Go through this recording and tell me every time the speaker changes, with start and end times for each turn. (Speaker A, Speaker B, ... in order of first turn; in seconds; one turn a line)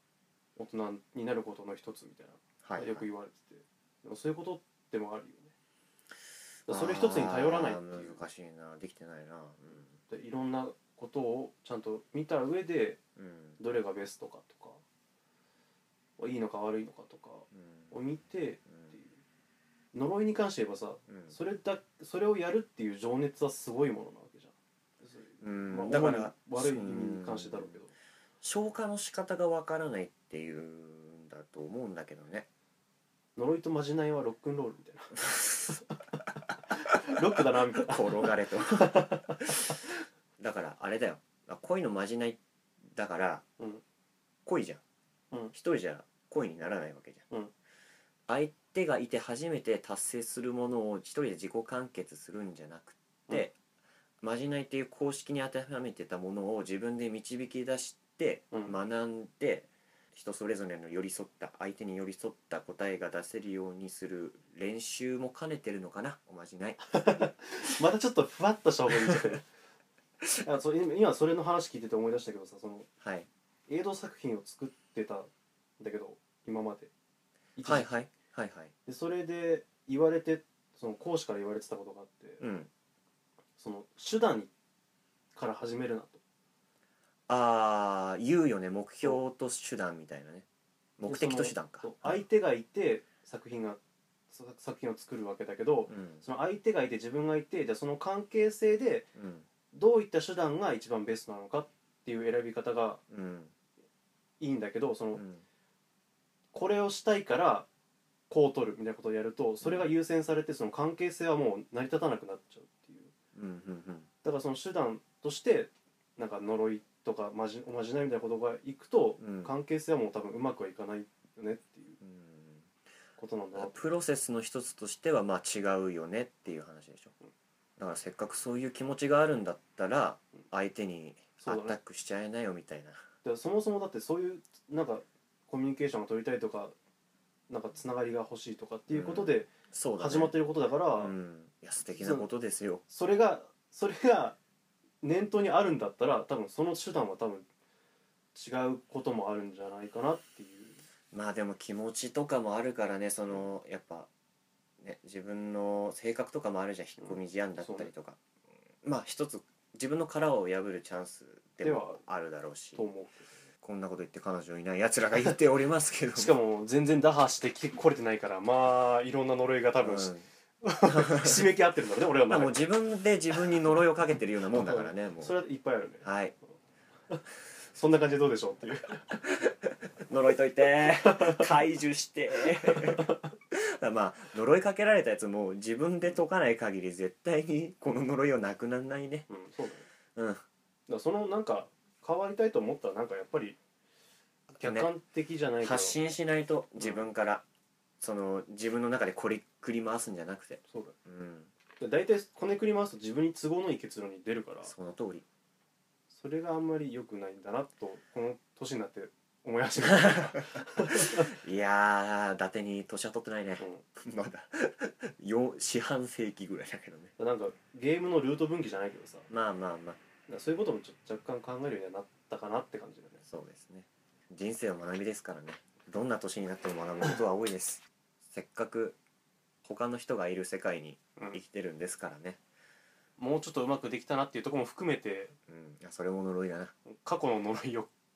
Speaker A: 0.6-5.5
Speaker B: 2.6-3.1
Speaker A: 6.7-8.2
Speaker B: 6.7-9.9
Speaker A: 10.1-13.0
Speaker B: 13.2-13.6
Speaker A: 13.6-14.8
Speaker A: 16.2-19.2
Speaker B: 17.5-17.9
Speaker A: 19.9-27.9
Speaker B: 21.1-21.4
Speaker B: 25.4-27.8
Speaker B: 28.4-32.5
Speaker A: 33.4-36.0
Speaker A: 36.7-39.9
Speaker B: 37.8-39.6
Speaker B: 40.4-42.4
Speaker B: 42.9-43.4
Speaker B: 44.5-44.8
Speaker B: 45.5-47.3
Speaker B: 48.3-53.6
Speaker B: 54.2-67.0
Speaker A: 66.9-69.5
Speaker A: 70.4-72.9
Speaker B: 73.0-73.3
Speaker A: 73.7-75.3
Speaker A: 75.8-76.9
Speaker A: 77.6-78.1
Speaker B: 77.7-78.7
Speaker A: 78.9-82.4
Speaker B: 82.4-82.7
Speaker A: 83.6-84.5
Speaker A: 85.3-86.2
Speaker B: 87.3-90.5
Speaker B: 91.0-92.2
Speaker A: 91.0-93.8
Speaker A: 94.3-99.1
Speaker B: 95.9-96.2
Speaker B: 99.2-99.5
Speaker A: 99.7-103.0
Speaker B: 103.1-103.5
Speaker A: 104.4-105.2
Speaker B: 105.2-105.4
Speaker A: 106.5-107.7
Speaker A: 108.3-113.1
Speaker B: 109.6-109.9
Speaker B: 113.3-114.1
Speaker A: 114.2-122.0
Speaker B: 119.2-119.5
Speaker B: 122.0-122.7
Speaker A: 123.2-123.9
Speaker B: 123.5-127.1
Speaker B: 127.8-133.0
Speaker A: 131.4-131.8
Speaker A: 133.2-136.8
Speaker A: 137.5-141.1
Speaker B: 138.9-140.4
Speaker B: 140.9-142.8
Speaker A: 141.9-142.3
Speaker A: 142.9-144.4
Speaker A: 145.0-147.5
Speaker A: 148.3-150.8
Speaker B: 151.1-154.1
Speaker B: 154.8-158.2
Speaker A: 157.0-157.9
Speaker B: 158.8-162.9
Speaker A: 161.6-162.0
Speaker A: 162.8-163.3
Speaker B: 163.6-166.3
Speaker A: 166.2-172.7
Speaker B: 169.8-170.3
Speaker B: 170.9-171.5
Speaker B: 172.3-175.3
Speaker A: 174.5-176.1
Speaker B: 176.0-176.3
Speaker A: 177.1-179.2
Speaker B: 179.1-189.3
Speaker A: 180.9-181.4
Speaker A: 182.7-183.1
Speaker A: 189.3-189.9
Speaker B: 190.2-190.4
Speaker A: 190.9-193.6
Speaker B: 194.5-194.9
Speaker A: 194.5-196.0
Speaker B: 195.6-197.4
Speaker A: 196.8-197.1
Speaker B: 198.0-201.5
Speaker A: 200.7-200.9
Speaker A: 201.8-204.7
Speaker B: 204.6-205.3
Speaker A: 206.1-211.3
Speaker B: 209.8-217.1
Speaker A: 217.2-219.3
Speaker B: 219.3-220.0
Speaker A: 220.3-223.2
Speaker B: 223.3-229.0
Speaker B: 229.6-232.4
Speaker A: 233.2-235.3
Speaker B: 235.5-236.7
Speaker A: 236.9-237.9